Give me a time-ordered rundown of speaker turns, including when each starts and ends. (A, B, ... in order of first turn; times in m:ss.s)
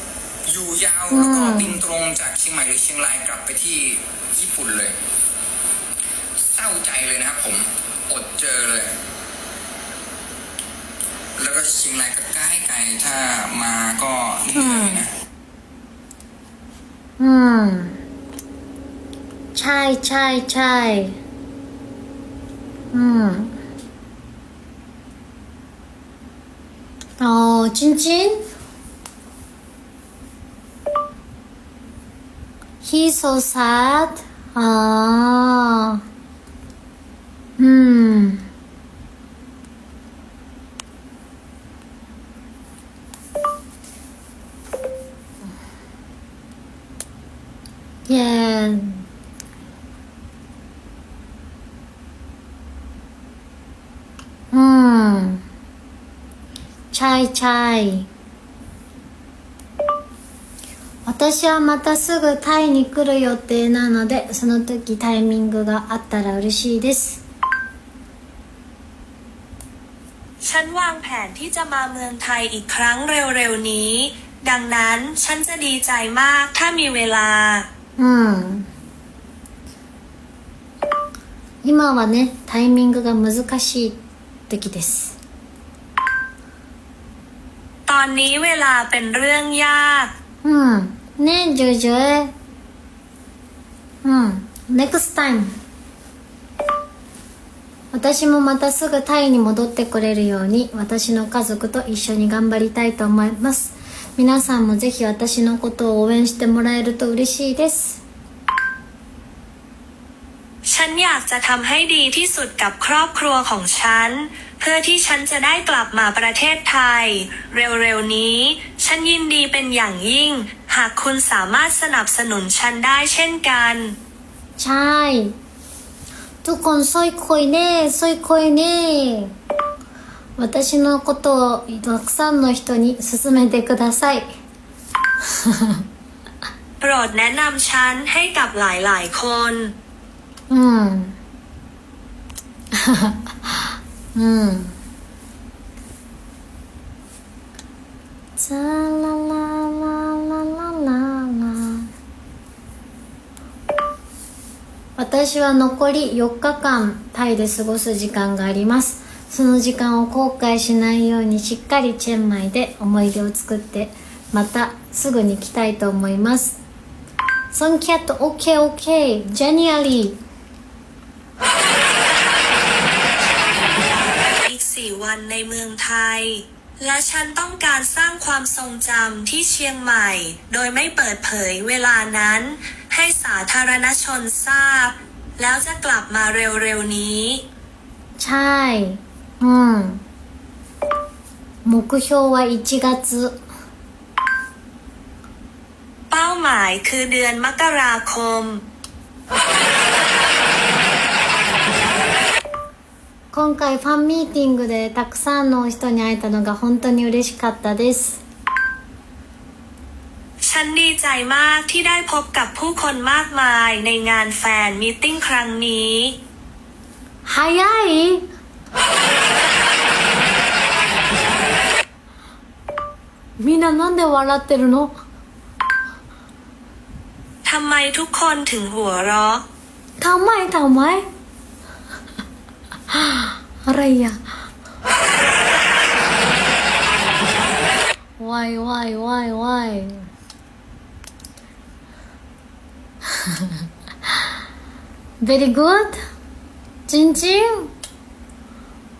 0:00.5-0:05.0 A
0:01.1-0:01.8 B
0:06.4-0:08.9 A
0:11.4-0:15.1 A
0:14.5-0:15.1 B
0:17.2-0:18.0 B
0:19.5-0:21.2 B
0:22.9-0:23.6 B
0:27.2-0:28.4 B
0:32.8-0:36.0 B
0:37.6-0:38.5 B
0:48.1-0:49.1 B
0:54.5-0:55.4 B
0:56.9-0:58.1 B
1:01.0-1:07.2 B
1:10.4-1:17.7 C
1:18.0-1:18.7 B
1:21.6-1:25.2 B
1:27.9-1:30.1 C
1:30.4-1:32.3 B
1:34.0-1:35.5 B
1:37.9-1:48.0 B
1:50.6-2:04.0 C
2:04.6-2:05.4 B
2:06.4-2:09.4 B
2:10.4-2:14.3 B
2:15.2-2:15.8 B
2:16.8-2:19.8 C
2:20.5-2:21.2 B
2:22.7-2:24.8 B
2:28.4-2:31.9 B
2:35.0-2:46.6 B
2:47.5-2:50.2 B
2:54.4-3:07.4 C
3:08.2-3:10.0 B
3:11.6-3:13.4 B
3:16.1-3:18.6 C
3:23.3-3:28.2 B
3:30.4-3:36.2 C
3:37.2-3:38.3 B
3:43.4-3:44.9 B
3:47.4-3:49.4 C
3:50.0-3:51.0 B
3:52.9-3:54.4 B
3:58.2-4:00.1 B
4:03.1-4:04.1 B
4:05.2-4:06.0 B
4:06.9-4:07.7 B